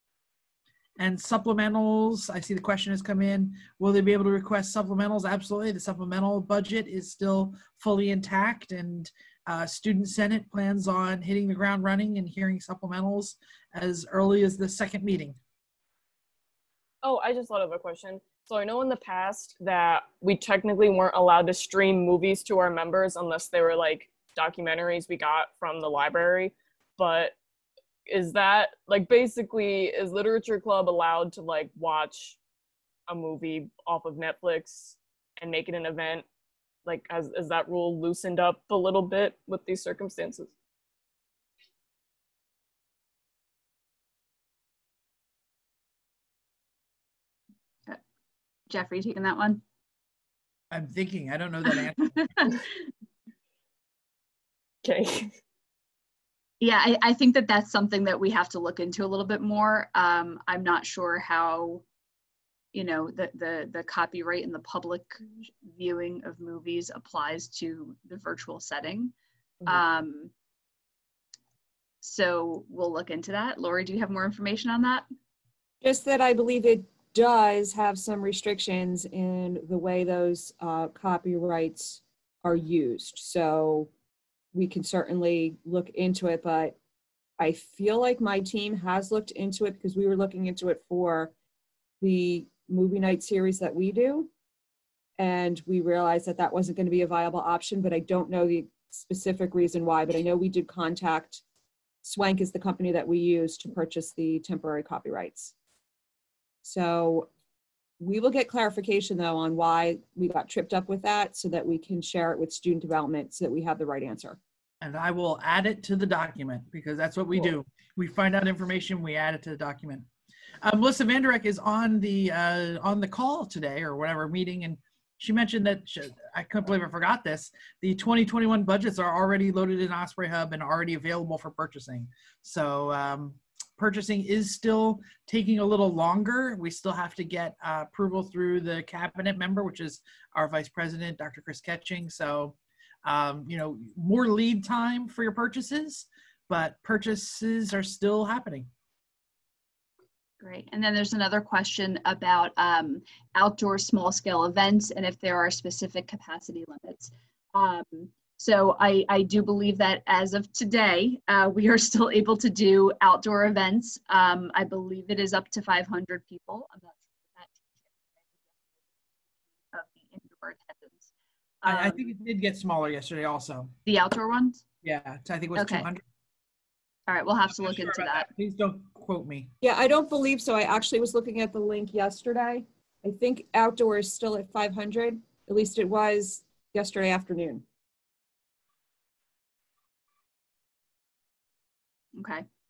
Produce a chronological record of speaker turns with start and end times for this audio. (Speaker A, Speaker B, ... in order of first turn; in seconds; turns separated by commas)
Speaker A: 1.0-15.4, Speaker B: 17.0-27.4, Speaker B: 28.1-32.4, Speaker B: 33.1-36.2, Speaker B: 36.8-40.5, Speaker C: 48.7-49.6, Speaker A: 50.7-52.5, Speaker C: 52.2-52.6, Speaker B: 54.8-55.4, Speaker C: 56.6-61.8, Speaker C: 62.7-69.1, Speaker C: 69.6-70.3, Speaker C: 72.0-75.1, Speaker D: 75.8-83.9, Speaker D: 84.5-86.8, Speaker D: 87.4-91.3, Speaker D: 92.0-94.3, Speaker D: 95.2-101.4, Speaker D: 102.0-105.5, Speaker D: 106.6-107.3, Speaker D: 108.0-114.4, Speaker A: 114.8-120.1, Speaker A: 120.6-148.7, Speaker C: 150.4-168.8, Speaker C: 169.7-171.1, Speaker C: 171.6-172.1, Speaker A: 171.6-173.7, Speaker C: 173.8-174.6, Speaker A: 174.8-176.0, Speaker C: 175.5-175.9, Speaker C: 177.1-178.3, Speaker A: 177.5-179.5, Speaker D: 179.6-187.6, Speaker C: 192.1-192.4